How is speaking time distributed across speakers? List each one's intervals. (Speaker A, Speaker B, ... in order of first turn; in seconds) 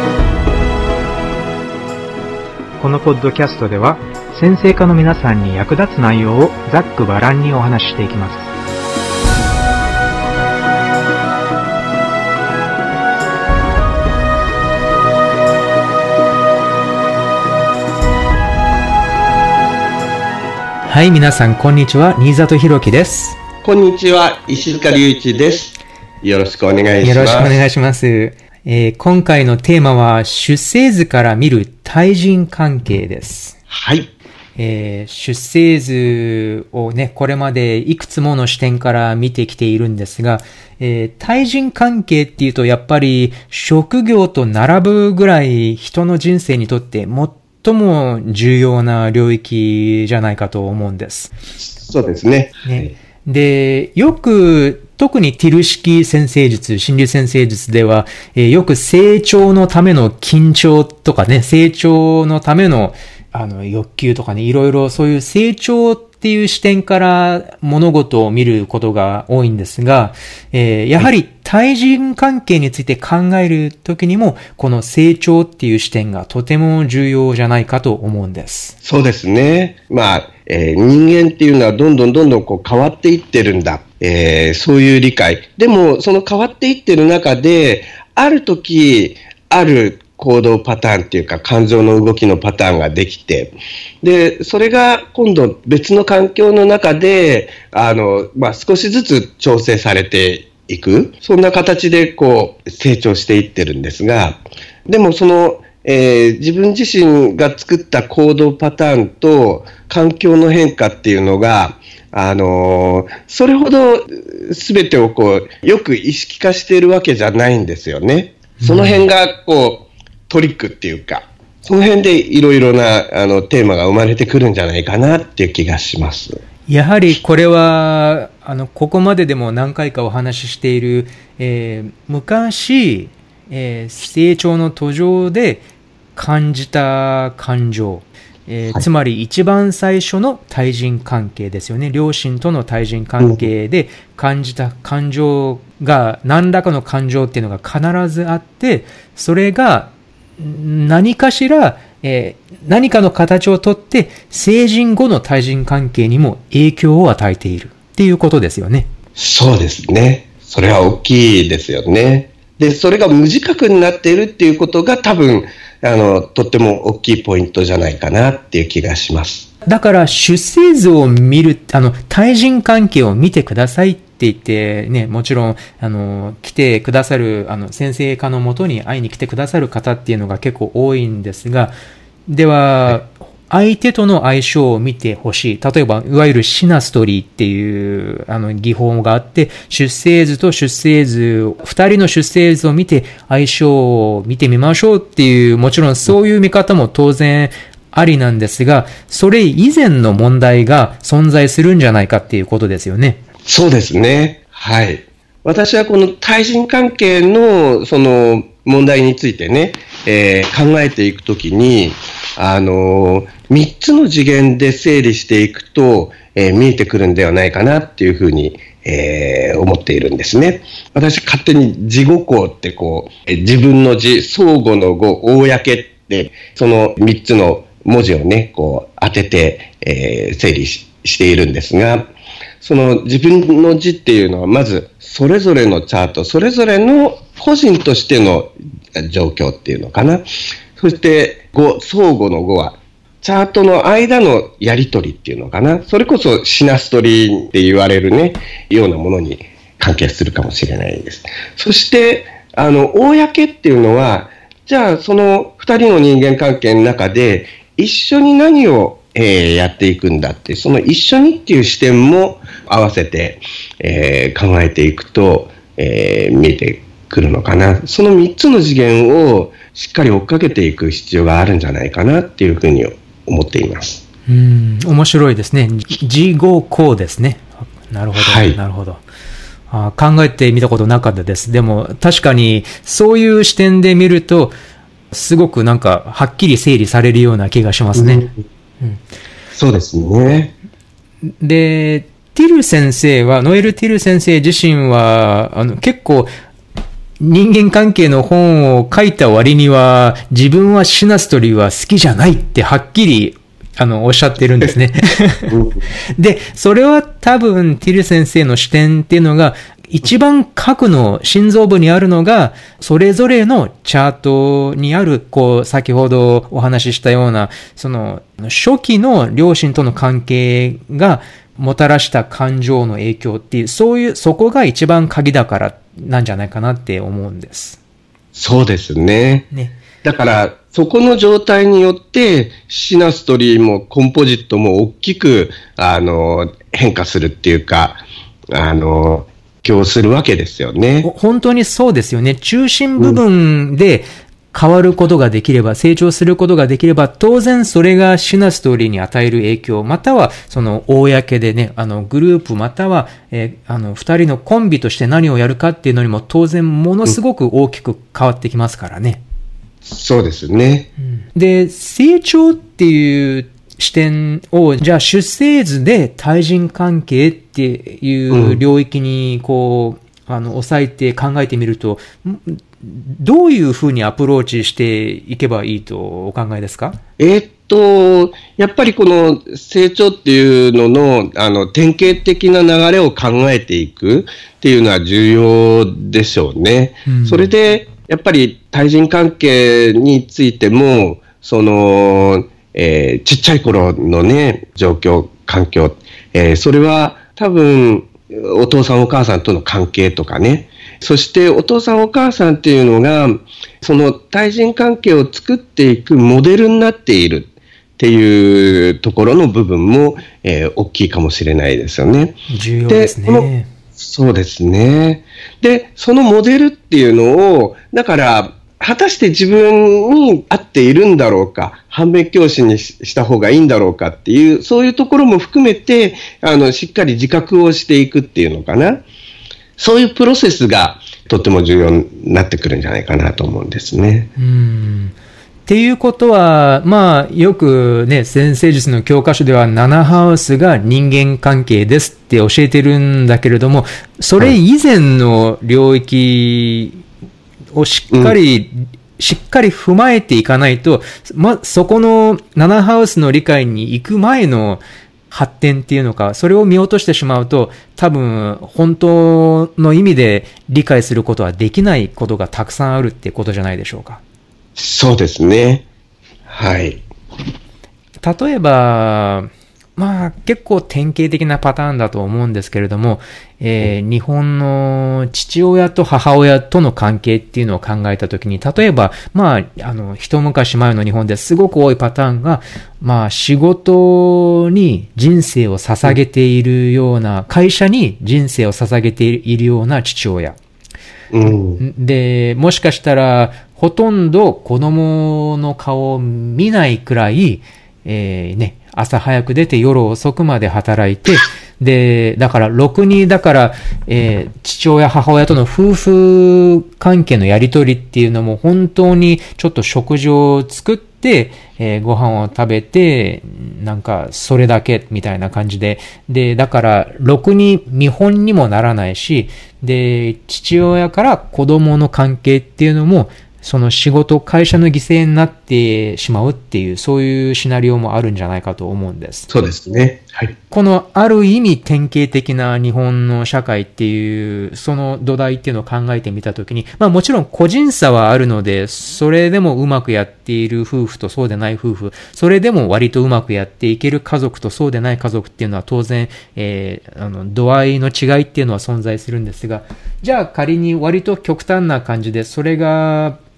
Speaker A: 2.8-8.5, 20.9-23.4, 27.0-33.6, 34.6-51.3, 52.6-78.7, 118.6-119.0, 126.7-135.6, 136.2-158.9, 169.7-181.7, 182.3-203.2, 274.3-279.0, 279.7-284.5, 285.1-288.3, 291.4-296.3, 297.2-305.6, 306.2-327.8, 341.0-359.2, 361.2-377.0, 387.0-387.5, 412.5-413.7, 434.4-435.1, 435.7-447.0, 447.7-464.2, 468.2-490.6, 491.8-529.5, 530.7-553.4
Speaker B: 23.6-27.6, 33.7-34.1, 51.6-52.9, 78.8-126.4, 143.2-143.5, 159.2-169.5, 203.4-232.1, 232.6-240.2, 240.8-274.0, 278.2-278.6, 287.9-288.4, 289.5-290.5, 305.5-305.8, 328.3-329.5, 330.0-338.0, 338.5-341.1, 359.8-360.9, 368.3-368.6, 377.2-412.4, 412.9-429.0, 429.8-434.3, 448.1-448.4, 464.8-465.8, 466.5-467.0, 491.3-491.8, 529.5-530.5